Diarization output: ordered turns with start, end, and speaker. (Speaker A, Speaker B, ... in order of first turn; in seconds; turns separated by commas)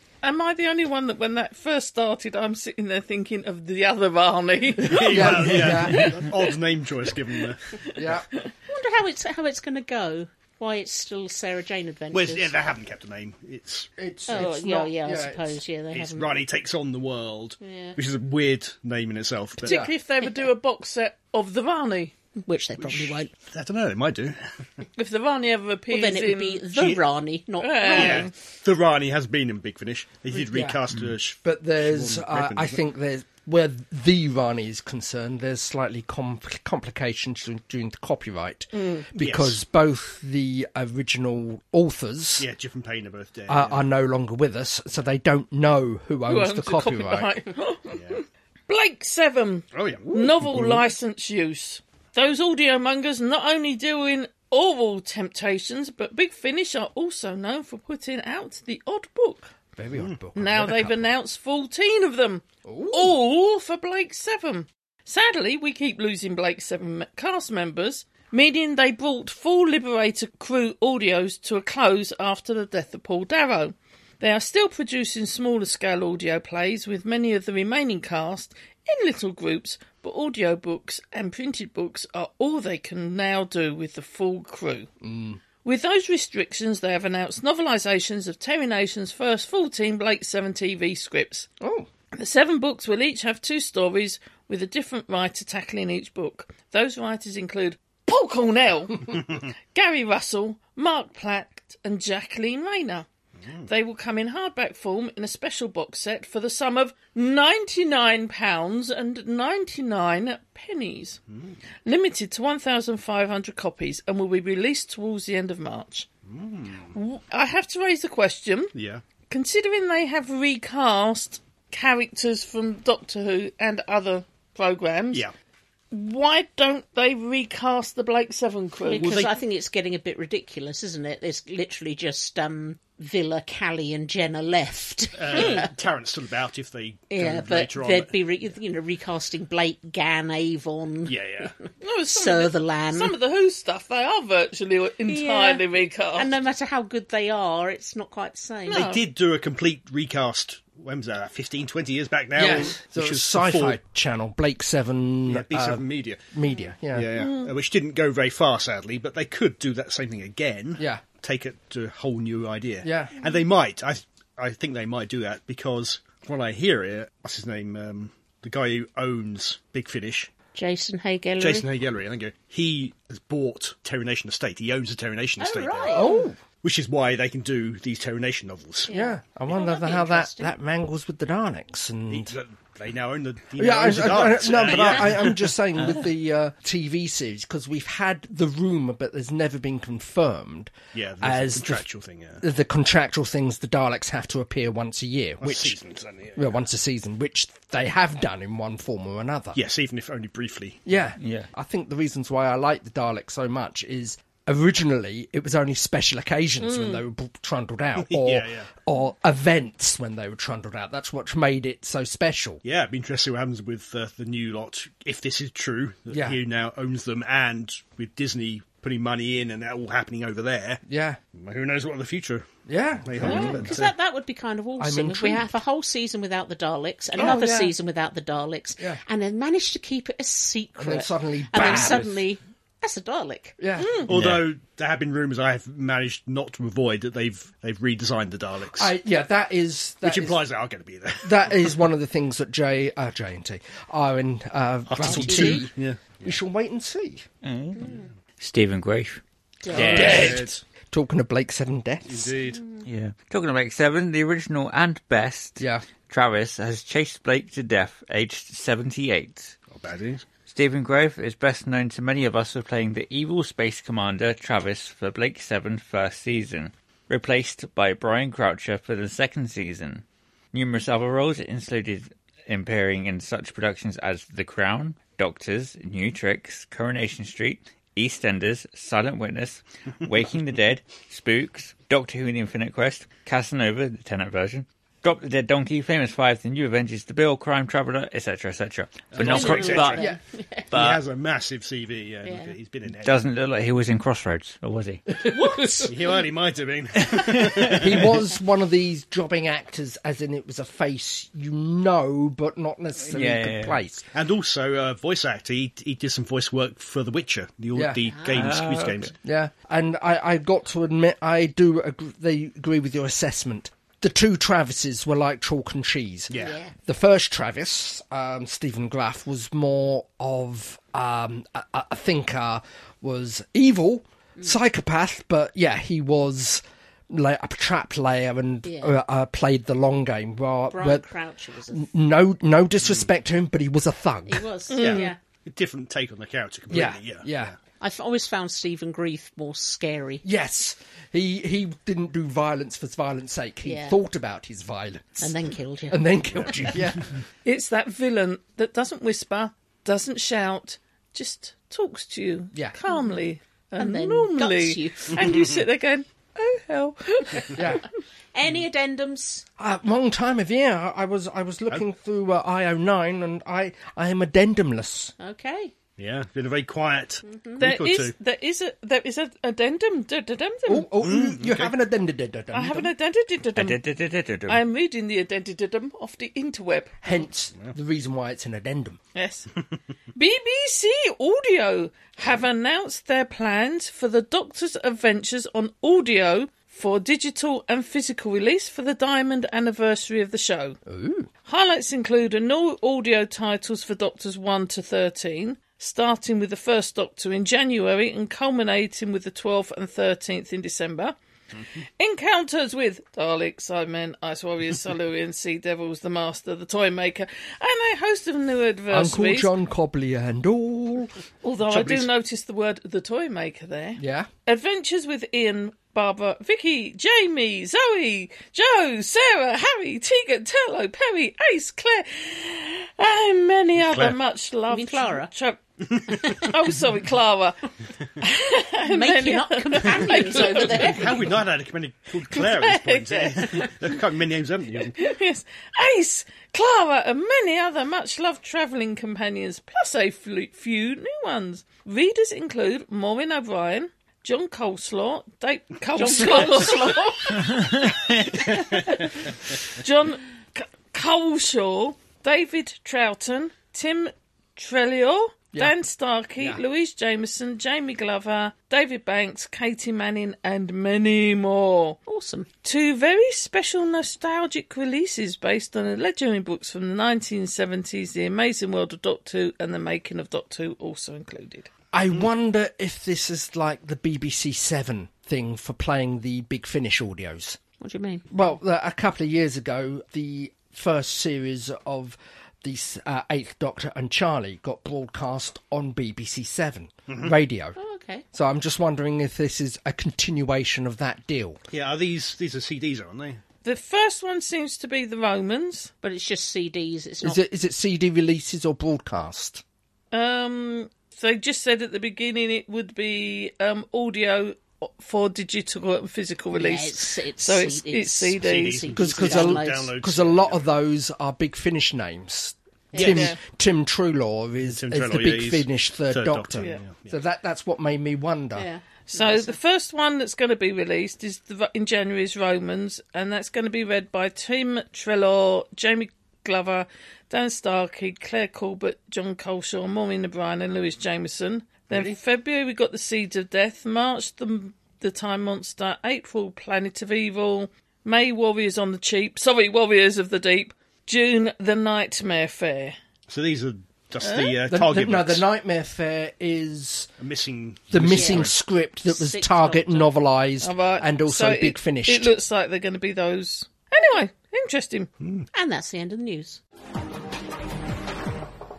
Speaker A: 0.2-6.6, Speaker B: 4.8-7.6, Speaker C: 4.8-6.2, Speaker A: 7.2-8.5, Speaker C: 8.0-8.3, Speaker D: 8.7-12.5, Speaker B: 12.1-13.9, Speaker C: 14.0-15.5, Speaker D: 14.3-16.4, Speaker B: 15.9-19.8, Speaker D: 17.6-18.0, Speaker A: 19.6-22.1, Speaker D: 22.4-23.3, Speaker B: 22.8-24.8, Speaker A: 25.0-26.7, Speaker D: 25.9-28.3, Speaker B: 26.8-27.0, Speaker A: 27.6-28.3, Speaker B: 27.9-32.8, Speaker C: 30.3-30.8, Speaker C: 31.4-42.5, Speaker B: 39.2-39.6, Speaker B: 42.4-43.9, Speaker C: 43.5-47.3, Speaker A: 46.3-59.5, Speaker B: 47.9-48.2, Speaker B: 49.7-50.8, Speaker C: 59.8-61.1, Speaker A: 60.4-84.9, Speaker C: 62.6-63.2, Speaker C: 85.0-85.4, Speaker A: 85.6-91.5, Speaker C: 91.6-91.9, Speaker A: 92.1-103.1, Speaker A: 103.7-111.2, Speaker A: 111.8-116.1, Speaker B: 116.3-116.9, Speaker A: 116.9-118.7, Speaker B: 118.7-119.0, Speaker A: 119.3-125.3, Speaker A: 125.9-129.3, Speaker D: 128.9-135.7, Speaker B: 129.0-129.3, Speaker B: 135.2-138.1, Speaker D: 137.1-141.5, Speaker B: 141.1-141.5, Speaker A: 141.8-146.3, Speaker D: 142.1-143.1, Speaker D: 145.1-148.9, Speaker A: 148.7-149.0, Speaker B: 148.7-153.8, Speaker C: 152.4-157.1, Speaker B: 155.3-156.3, Speaker B: 156.9-170.3, Speaker A: 157.2-157.5, Speaker C: 160.8-161.0, Speaker C: 162.8-163.2, Speaker D: 170.6-171.7, Speaker B: 171.4-176.1, Speaker D: 175.4-176.3, Speaker C: 175.9-176.4, Speaker B: 176.6-178.9, Speaker D: 178.9-180.6, Speaker C: 178.9-182.3, Speaker B: 182.1-185.5, Speaker C: 183.6-191.8, Speaker B: 190.9-192.4, Speaker C: 192.4-195.8, Speaker B: 195.4-196.6, Speaker C: 196.3-199.6, Speaker B: 199.5-200.8, Speaker C: 200.9-212.6, Speaker E: 201.2-201.5, Speaker B: 208.1-208.7, Speaker B: 212.6-220.8, Speaker C: 216.1-216.4, Speaker C: 220.9-221.2, Speaker B: 221.3-223.9, Speaker C: 222.7-223.8, Speaker D: 223.2-233.6, Speaker C: 224.8-225.6, Speaker C: 227.2-227.7, Speaker C: 230.8-232.1, Speaker B: 231.6-232.1, Speaker C: 233.6-234.1, Speaker A: 233.8-234.1, Speaker B: 234.1-238.9, Speaker E: 234.1-234.4, Speaker C: 238.7-240.4, Speaker B: 240.0-241.8, Speaker C: 241.2-247.2, Speaker B: 244.9-246.4, Speaker D: 245.0-245.7, Speaker E: 247.4-249.2, Speaker D: 249.6-250.3, Speaker C: 249.7-252.3, Speaker E: 249.8-250.5, Speaker B: 249.8-250.6, Speaker B: 252.1-252.7, Speaker E: 252.8-259.6, Speaker C: 255.6-255.8, Speaker B: 259.7-260.3, Speaker E: 260.5-290.0, Speaker B: 289.1-290.0, Speaker D: 289.2-290.7, Speaker E: 290.7-291.0, Speaker B: 290.7-293.2, Speaker D: 292.2-292.6, Speaker E: 293.0-295.0, Speaker C: 295.2-295.9, Speaker D: 295.2-296.2, Speaker B: 295.9-298.1, Speaker C: 297.7-304.1, Speaker E: 303.1-303.8, Speaker B: 304.1-309.1, Speaker C: 307.8-308.0, Speaker D: 308.1-308.6, Speaker E: 308.3-309.1, Speaker C: 309.2-331.1, Speaker B: 316.3-316.6, Speaker D: 316.3-316.7, Speaker D: 328.6-329.0, Speaker D: 330.7-331.9, Speaker C: 331.7-334.5, Speaker D: 334.3-335.2, Speaker A: 334.7-335.1, Speaker B: 334.8-337.4, Speaker C: 336.7-337.5, Speaker D: 337.8-340.2, Speaker C: 340.2-345.3, Speaker D: 343.6-344.0, Speaker D: 345.2-346.6, Speaker C: 345.9-347.1, Speaker A: 347.4-357.7, Speaker D: 353.8-355.4, Speaker B: 355.2-355.5, Speaker C: 357.5-357.9, Speaker D: 358.3-359.5, Speaker C: 359.6-365.1, Speaker D: 365.2-365.7, Speaker B: 366.0-368.1, Speaker D: 367.2-367.7, Speaker A: 367.6-370.9, Speaker C: 370.7-372.9, Speaker B: 371.0-371.7, Speaker A: 372.5-373.8, Speaker E: 373.6-374.6, Speaker A: 374.5-377.2, Speaker C: 377.0-379.0, Speaker A: 379.1-379.5, Speaker A: 380.1-390.8, Speaker C: 390.9-391.3, Speaker A: 391.5-401.1, Speaker A: 402.0-409.5, Speaker C: 408.9-411.1, Speaker A: 411.4-425.6, Speaker B: 411.7-412.1, Speaker C: 414.0-414.3, Speaker B: 423.8-424.2, Speaker D: 424.7-425.3, Speaker A: 426.1-427.6, Speaker A: 428.2-431.0, Speaker D: 428.8-431.2, Speaker B: 430.6-435.0, Speaker A: 432.3-433.9, Speaker A: 435.0-462.0, Speaker D: 445.9-447.7, Speaker E: 447.5-448.1, Speaker B: 448.5-448.8, Speaker D: 462.1-462.5, Speaker A: 462.6-471.7, Speaker C: 471.9-477.6, Speaker D: 477.8-478.2, Speaker C: 478.3-487.8, Speaker B: 487.1-487.4, Speaker D: 487.8-488.2, Speaker C: 488.3-491.6, Speaker B: 491.7-493.4, Speaker A: 493.6-495.9, Speaker D: 496.0-497.4, Speaker C: 497.2-499.6, Speaker A: 500.1-508.9, Speaker D: 506.5-509.9, Speaker B: 508.4-510.6, Speaker C: 508.9-518.7, Speaker D: 512.9-513.4, Speaker A: 513.0-513.4, Speaker B: 514.7-517.2, Speaker A: 516.6-516.9, Speaker D: 518.5-519.6, Speaker A: 519.1-543.0, Speaker B: 531.9-532.2, Speaker B: 543.3-545.4, Speaker A: 544.2-544.6, Speaker C: 544.7-547.1, Speaker B: 547.2-548.5, Speaker C: 547.9-552.3, Speaker D: 548.0-548.5, Speaker D: 549.1-550.1, Speaker A: 550.6-555.1, Speaker B: 555.2-555.5, Speaker D: 555.5-556.6